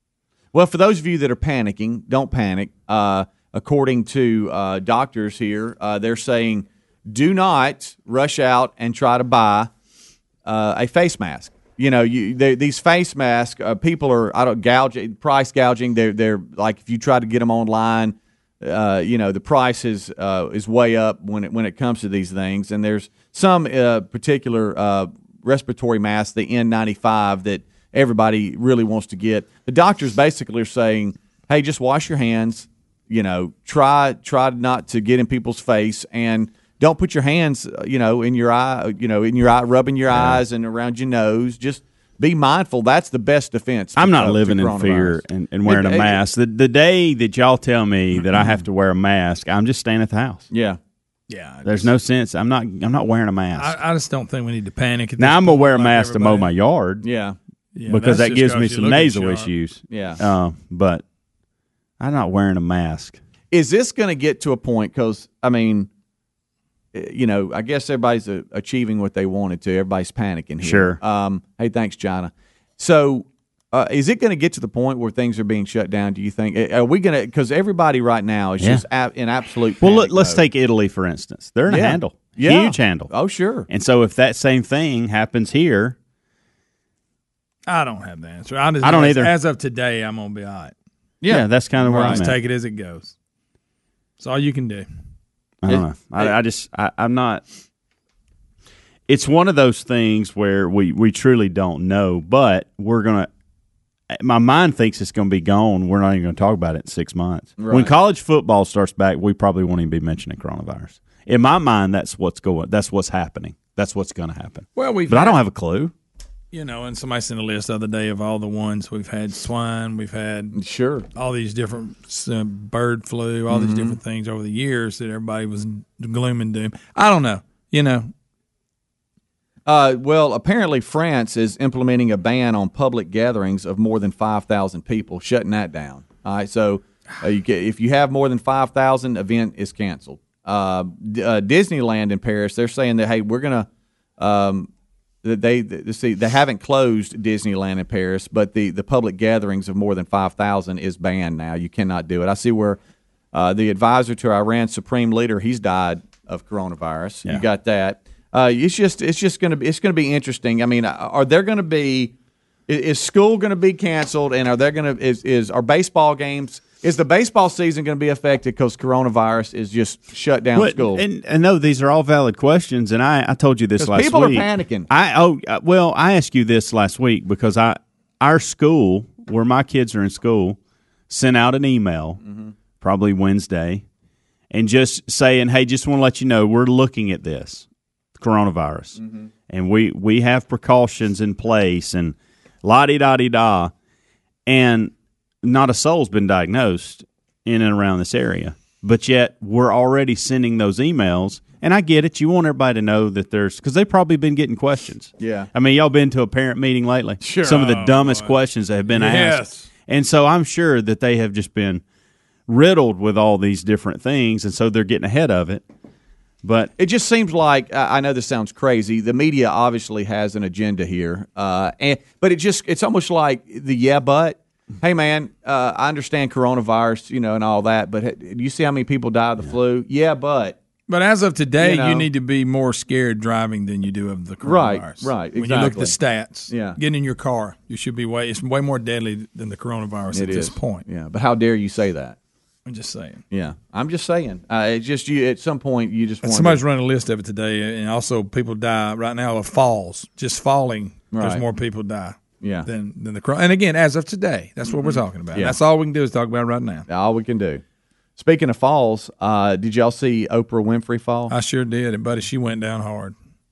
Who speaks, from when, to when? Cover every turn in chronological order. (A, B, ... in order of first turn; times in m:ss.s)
0:00.5-0:09.7 A
0:10.4-0:46.2 A
0:40.1-0:40.4 B
0:44.0-0:50.5 B
0:50.5-0:50.8 A
0:51.3-0:51.9 C
0:51.6-0:53.8 B
0:53.6-0:56.5 C
0:55.2-0:57.0 B
0:57.0-0:57.4 A
0:57.7-0:59.5 C
0:57.9-1:01.0 B
0:59.9-1:00.2 A
1:02.0-1:03.2 B
1:03.5-1:05.9 A
1:06.9-1:20.4 A
1:10.6-1:11.0 B
1:18.6-1:18.8 B
1:19.8-1:23.1 B
1:21.7-1:23.7 A
1:23.7-1:26.0 B
1:27.7-1:30.7 C
1:28.8-1:29.3 B
1:31.2-1:32.2 A
1:31.3-1:32.4 B
1:31.9-1:33.1 C
1:34.2-1:34.8 C
1:35.6-1:37.4 B
1:35.7-1:36.3 A
1:39.1-1:43.3 B
1:44.1-1:55.9 B
1:47.6-1:47.9 A
1:54.8-1:55.4 C
1:56.5-2:00.6 C
2:00.5-2:01.0 A
2:01.2-2:08.1 C
2:03.5-2:04.0 A
2:09.6-2:23.7 A
2:24.2-2:24.7 A
2:25.2-2:32.8 A
2:33.3-2:42.1 A
2:42.7-2:51.0 A
2:50.5-3:00.6 B
2:53.8-2:54.9 A
3:01.1-3:02.2 B
3:02.2-3:02.5 A
3:02.8-3:03.8 B
3:04.5-3:13.7 B
3:09.0-3:09.3 A
3:14.4-3:31.8 B
3:25.2-3:25.5 A
3:27.2-3:27.7 A
3:27.4-3:28.4 C
3:28.9-3:29.7 C
3:32.5-3:35.6 B
3:36.4-3:36.7 B
3:36.8-3:50.6 A
3:50.9-4:00.8 C
3:51.6-3:52.1 A
3:54.4-3:56.0 A
3:56.5-3:56.8 A
4:00.1-4:02.2 A
4:02.6-4:03.2 C
4:03.3-4:06.6 A
4:06.2-4:16.8 C
4:11.1-4:11.4 A
4:12.4-4:12.7 A
4:14.7-4:15.6 A
4:16.9-4:17.6 A
4:18.2-4:21.3 A
4:21.3-4:23.1 C